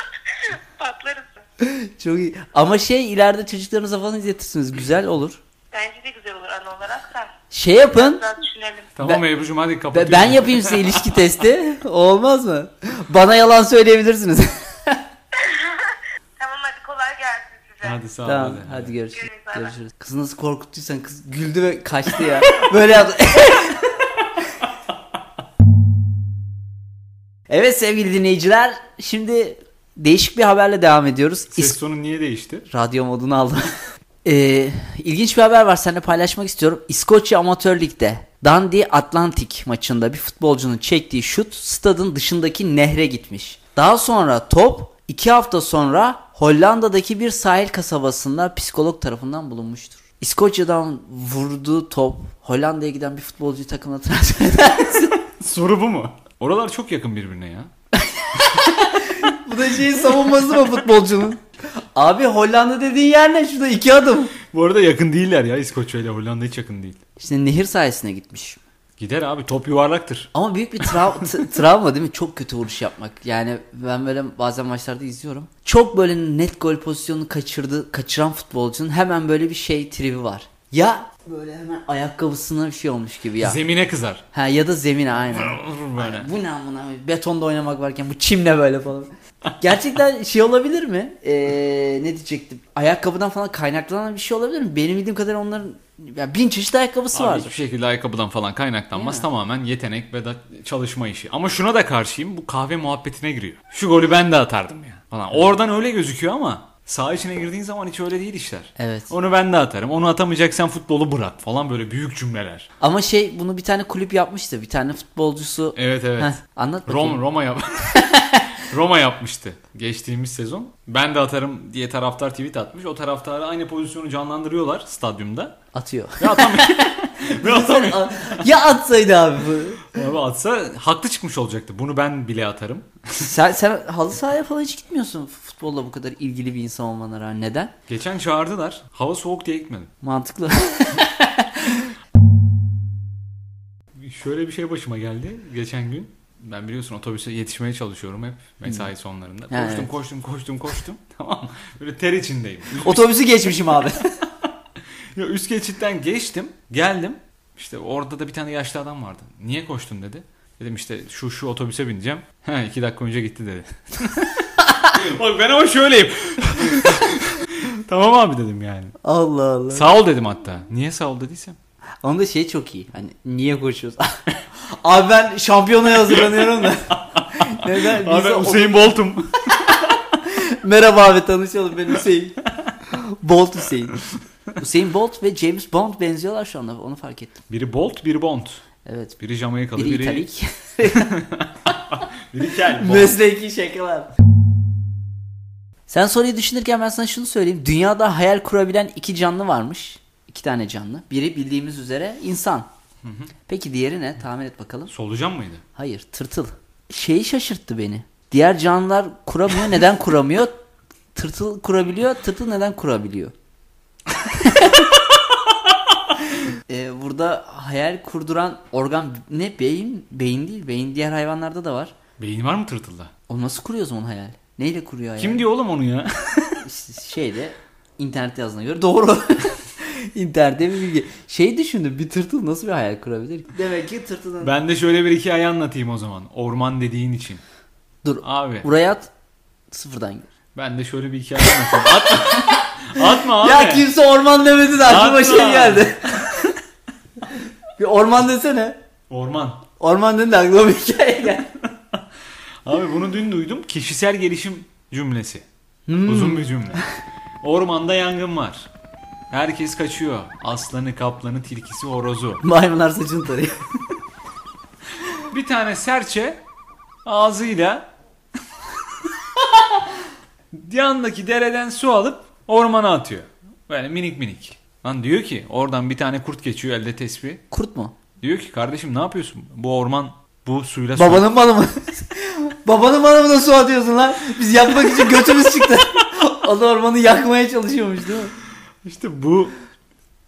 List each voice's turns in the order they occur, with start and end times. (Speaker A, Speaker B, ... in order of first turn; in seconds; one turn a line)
Speaker A: 0.3-1.4
Speaker B: 1.6-5.4
Speaker A: 5.7-8.9
Speaker B: 7.5-8.2
Speaker C: 8.9-11.2
Speaker B: 9.9-15.0
Speaker A: 15.3-18.0
Speaker C: 17.8-18.9
Speaker B: 18.2-24.0
Speaker A: 19.1-19.7
Speaker B: 27.5-31.8
Speaker C: 31.5-32.7
Speaker B: 32.7-33.7
Speaker B: 34.2-55.2
Speaker C: 55.2-57.7
Speaker B: 58.0-61.4
Speaker B: 61.9-64.3
Speaker C: 64.5-67.0
Speaker B: 67.2-68.6
Speaker C: 69.0-70.3
Speaker B: 70.3-83.6
Speaker C: 70.8-71.4
Speaker C: 83.4-84.2
Speaker B: 84.3-97.5
Speaker C: 85.3-86.3
Speaker C: 97.1-112.7
Speaker B: 98.9-99.2
Speaker B: 108.8-109.1
Speaker B: 112.8-117.2
Speaker C: 115.7-116.3
Speaker C: 116.9-125.6
Speaker B: 117.9-118.6
Speaker B: 125.7-129.9
Speaker C: 126.2-128.5
Speaker C: 129.9-133.3
Speaker B: 133.2-137.7
Speaker C: 137.9-139.9
Speaker B: 140.0-141.9
Speaker C: 143.9-153.1
Speaker B: 149.5-149.9
Speaker B: 152.7-154.2
Speaker C: 155.1-169.0
Speaker B: 169.0-169.9
Speaker C: 169.7-171.6
Speaker B: 172.0-179.0
Speaker C: 176.1-179.9
Speaker B: 179.7-184.0
Speaker B: 184.6-187.3
Speaker C: 187.5-188.6
Speaker B: 188.8-189.2
Speaker C: 189.2-190.3
Speaker B: 189.8-191.2
Speaker C: 190.9-193.2
Speaker B: 192.7-194.1
Speaker B: 195.9-202.7
Speaker C: 203.0-203.3
Speaker B: 203.5-204.9
Speaker C: 204.9-205.6
Speaker B: 205.7-210.6
Speaker B: 211.1-213.3
Speaker B: 214.2-214.9
Speaker B: 216.7-221.9
Speaker C: 222.2-223.1
Speaker B: 223.3-225.4
Speaker C: 225.2-226.6
Speaker B: 226.6-234.5
Speaker C: 234.4-237.4
Speaker B: 238.0-239.1
Speaker C: 238.2-238.7
Speaker B: 239.7-240.3
Speaker C: 240.5-243.9
Speaker B: 241.4-246.4
Speaker C: 244.8-246.5
Speaker B: 247.8-248.8
Speaker C: 249.1-249.6
Speaker B: 249.8-251.5
Speaker C: 252.6-255.4
Speaker B: 255.9-256.8
Speaker C: 256.0-256.8
Speaker C: 257.4-258.7
Speaker C: 259.3-262.4
Speaker B: 262.4-263.6
Speaker C: 265.3-266.4
Speaker C: 267.0-267.9
Speaker C: 270.5-277.4
Speaker B: 277.5-277.9
Speaker C: 278.2-281.3
Speaker B: 280.9-288.3
Speaker C: 288.8-289.5